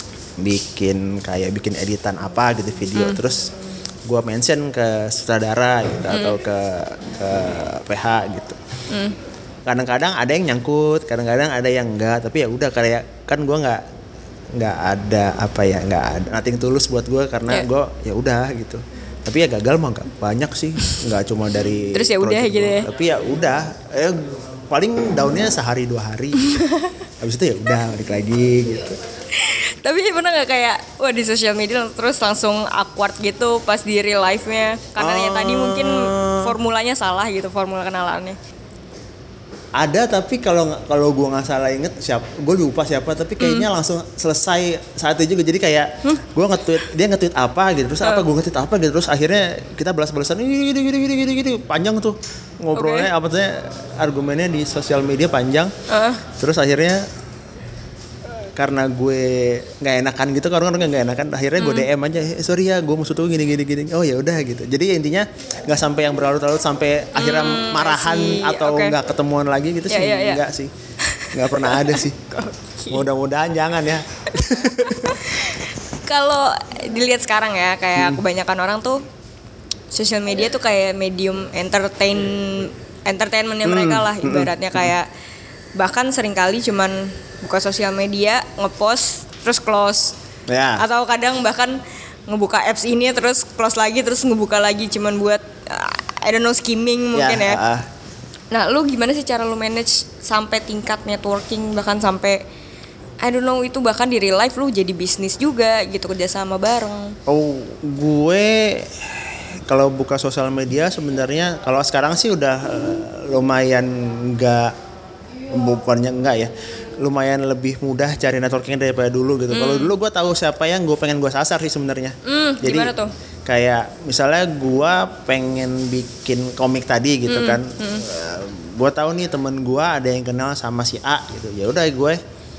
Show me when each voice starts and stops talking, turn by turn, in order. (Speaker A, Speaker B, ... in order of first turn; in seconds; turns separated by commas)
Speaker A: 0.4-3.5, Speaker B: 3.0-3.2, Speaker A: 4.1-8.6, Speaker B: 6.1-6.4, Speaker B: 8.9-9.2, Speaker A: 9.7-13.8, Speaker A: 14.6-26.6, Speaker B: 21.9-22.9, Speaker B: 26.4-26.9, Speaker A: 27.2-29.0, Speaker B: 29.3-38.4, Speaker A: 35.0-36.5, Speaker A: 39.8-55.7, Speaker B: 43.4-43.7, Speaker B: 48.0-48.3, Speaker B: 52.7-53.1, Speaker B: 55.9-56.2, Speaker A: 56.3-57.0, Speaker A: 58.5-70.7, Speaker B: 61.6-61.9, Speaker B: 67.2-69.0, Speaker B: 69.9-70.5, Speaker B: 71.0-73.1, Speaker A: 71.3-72.2, Speaker A: 72.9-75.2, Speaker B: 74.8-79.0, Speaker A: 78.0-78.2, Speaker B: 79.9-85.1, Speaker A: 83.6-84.9, Speaker B: 85.8-90.2, Speaker A: 90.5-90.8, Speaker B: 90.8-97.6, Speaker A: 97.1-97.9, Speaker B: 98.5-102.4, Speaker B: 103.2-107.2, Speaker A: 107.3-114.7, Speaker A: 115.5-122.9, Speaker B: 119.5-119.9, Speaker B: 122.2-123.1, Speaker A: 123.5-132.2, Speaker B: 127.3-128.1